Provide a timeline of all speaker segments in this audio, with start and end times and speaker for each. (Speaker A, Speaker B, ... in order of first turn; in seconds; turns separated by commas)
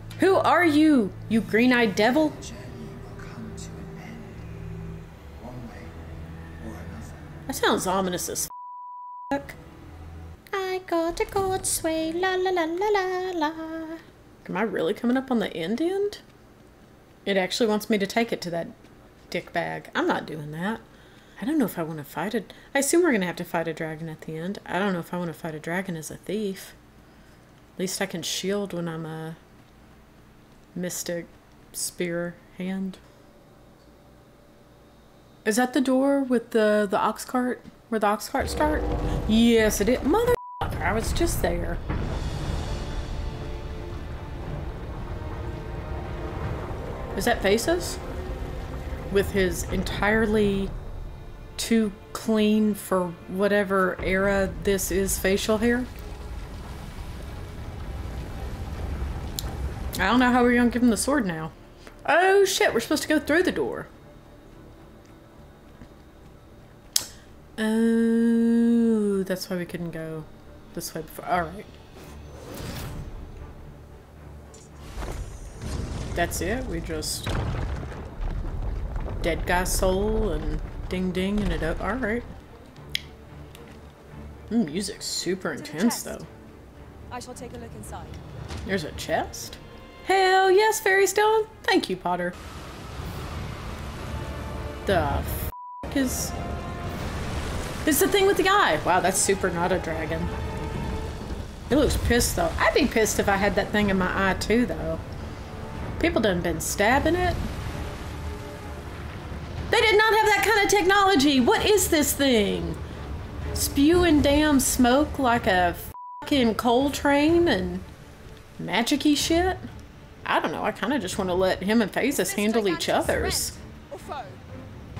Speaker A: 0.2-2.4, Speaker B: 2.3-4.4, Speaker B: 5.4-6.0, Speaker B: 6.6-7.2, Speaker A: 7.5-8.5, Speaker A: 9.3-9.6, Speaker A: 10.5-16.2, Speaker A: 17.3-18.8, Speaker A: 19.3-20.8, Speaker A: 21.4-26.8, Speaker A: 27.8-29.4, Speaker A: 30.8-33.0, Speaker A: 35.5-41.8, Speaker A: 47.2-48.0, Speaker A: 49.1-50.7, Speaker A: 51.6-55.9, Speaker A: 60.0-61.5, Speaker A: 62.0-63.9, Speaker A: 67.6-71.7, Speaker A: 76.1-77.3, Speaker A: 79.2-82.3, Speaker A: 84.5-86.3, Speaker C: 85.6-86.3, Speaker C: 87.1-88.2, Speaker A: 88.7-92.4, Speaker A: 94.8-96.3, Speaker A: 97.8-100.3, Speaker A: 101.7-105.0, Speaker A: 106.0-107.4, Speaker A: 109.7-112.8, Speaker A: 113.5-117.9, Speaker A: 118.6-119.7, Speaker A: 120.2-123.6, Speaker C: 122.1-124.4